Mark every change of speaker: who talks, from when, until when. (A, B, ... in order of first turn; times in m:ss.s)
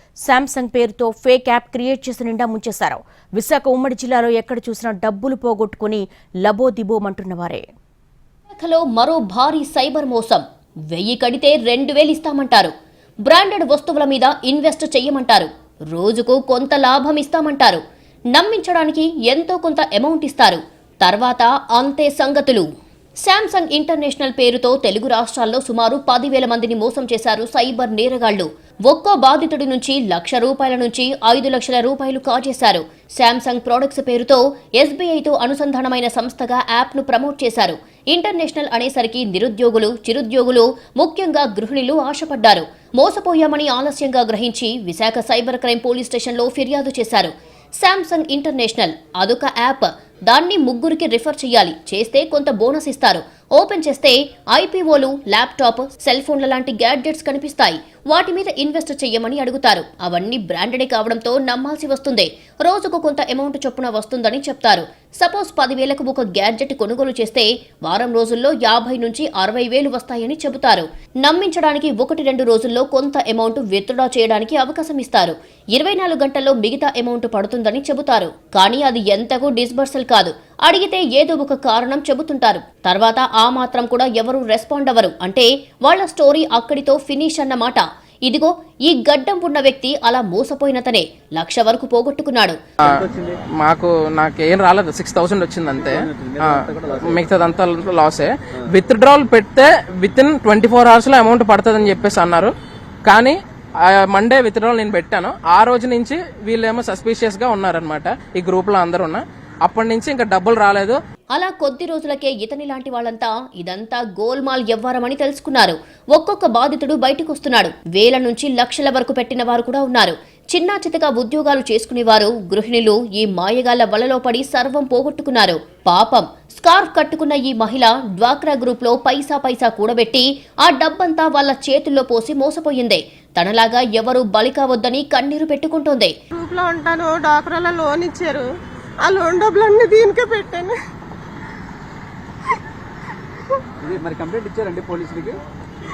0:00.2-0:07.6 A
0:08.5-0:12.7 B
0:13.2-0:17.8 B
0:18.3-0:22.6 B
0:23.2-1:32.6 B
1:32.8-1:33.4 C
1:33.6-1:42.5 D
1:35.8-1:37.3 C
1:43.0-1:51.0 D
1:51.3-2:16.1 B
2:16.4-2:18.4 E
2:19.1-2:20.7 E
2:23.8-2:25.4 C